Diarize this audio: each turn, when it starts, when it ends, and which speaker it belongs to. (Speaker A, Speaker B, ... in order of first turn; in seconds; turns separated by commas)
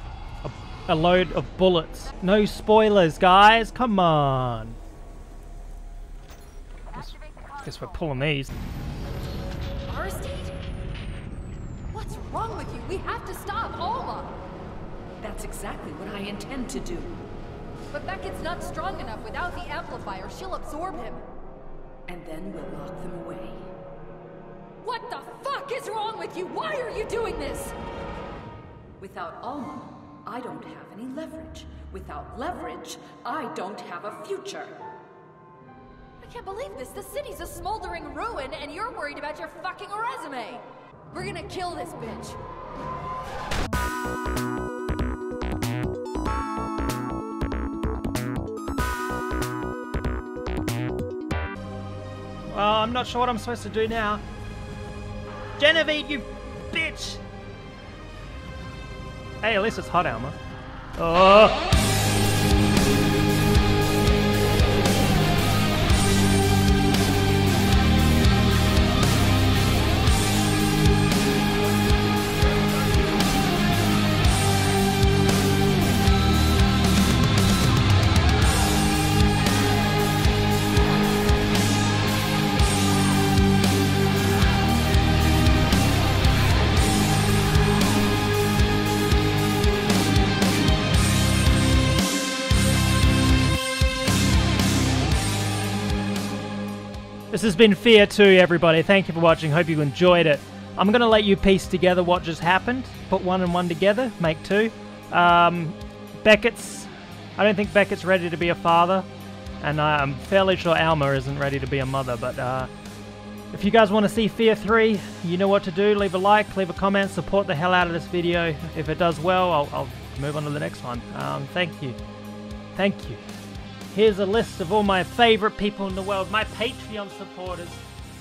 Speaker A: 0.4-4.8, Speaker B: 6.9-8.3, Speaker A: 6.9-8.5, Speaker B: 9.9-10.5, Speaker B: 11.9-14.4, Speaker C: 15.2-17.2, Speaker B: 17.9-21.2, Speaker C: 22.1-23.7, Speaker B: 24.8-27.8, Speaker C: 29.0-34.7, Speaker B: 36.2-42.4, Speaker A: 52.5-54.2, Speaker A: 55.6-57.2, Speaker A: 59.4-60.4, Speaker A: 61.0-61.6, Speaker A: 97.3-109.1, Speaker A: 109.6-112.7, Speaker A: 113.5-122.0, Speaker A: 122.8-123.2, Speaker A: 123.9-127.8